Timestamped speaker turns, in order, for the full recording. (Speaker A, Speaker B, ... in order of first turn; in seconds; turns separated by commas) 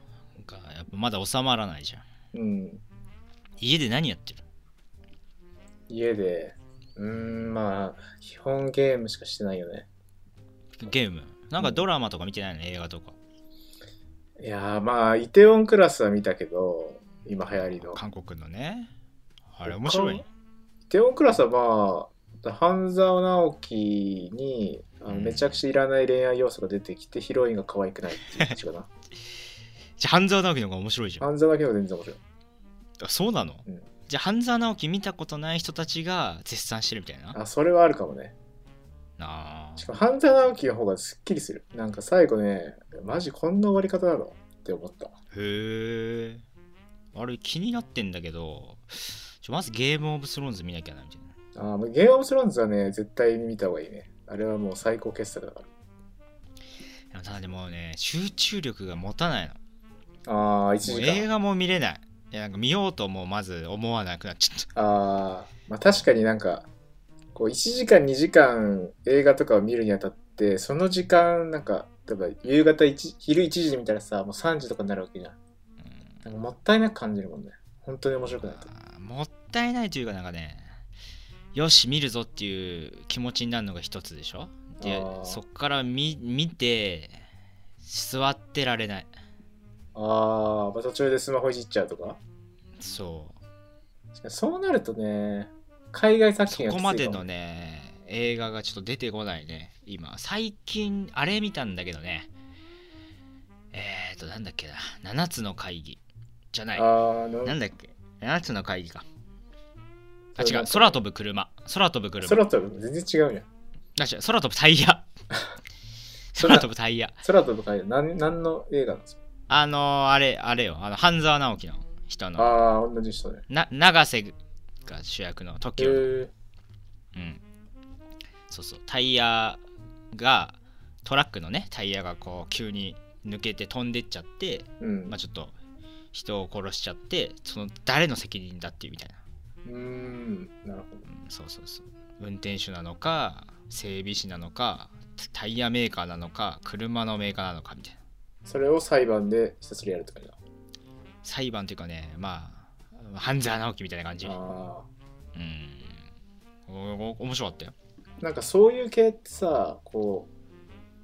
Speaker A: 0.4-2.0, Speaker B: 2.3-2.8, Speaker A: 3.6-4.4, Speaker B: 5.9-9.9, Speaker A: 10.8-13.2, Speaker B: 11.6-11.8, Speaker B: 14.4-18.0, Speaker A: 17.5-18.9, Speaker A: 19.5-20.3, Speaker B: 19.6-20.2, Speaker B: 20.9-28.9, Speaker A: 25.1-25.6, Speaker A: 30.0-31.3, Speaker B: 31.2-32.2, Speaker A: 33.0-37.4, Speaker B: 37.3-38.3, Speaker A: 39.2-39.9, Speaker B: 39.8-45.2, Speaker A: 45.3-46.5, Speaker A: 47.1-51.3, Speaker B: 51.5-55.7, Speaker A: 57.1-59.6, Speaker B: 60.3-61.3, Speaker A: 60.8-64.7, Speaker B: 64.8-66.7, Speaker B: 67.3-75.4, Speaker A: 75.8-76.2, Speaker B: 76.2-78.7, Speaker A: 78.3-80.8, Speaker A: 81.5-87.2, Speaker B: 84.8-85.4, Speaker A: 87.8-89.1, Speaker B: 89.9-92.2, Speaker A: 92.8-93.4, Speaker B: 94.2-97.3, Speaker A: 96.5-102.3, Speaker A: 103.7-106.0, Speaker A: 106.5-106.9, Speaker B: 106.7-107.5, Speaker A: 107.4-109.0, Speaker B: 110.3-111.0, Speaker A: 110.4-112.4, Speaker B: 112.2-113.5, Speaker A: 114.0-115.0, Speaker A: 116.3-117.2, Speaker B: 116.4-116.7, Speaker B: 117.2-119.2, Speaker A: 119.5-122.5, Speaker B: 122.4-123.4, Speaker A: 123.5-126.1, Speaker B: 125.8-126.3, Speaker A: 127.1-127.4, Speaker A: 128.5-135.5, Speaker B: 134.8-135.2, Speaker A: 136.1-139.2, Speaker B: 139.6-141.1, Speaker A: 141.1-148.0, Speaker B: 148.4-150.4, Speaker A: 151.2-154.4, Speaker B: 154.2-154.9, Speaker A: 155.3-156.1, Speaker A: 156.7-157.8, Speaker B: 158.2-160.3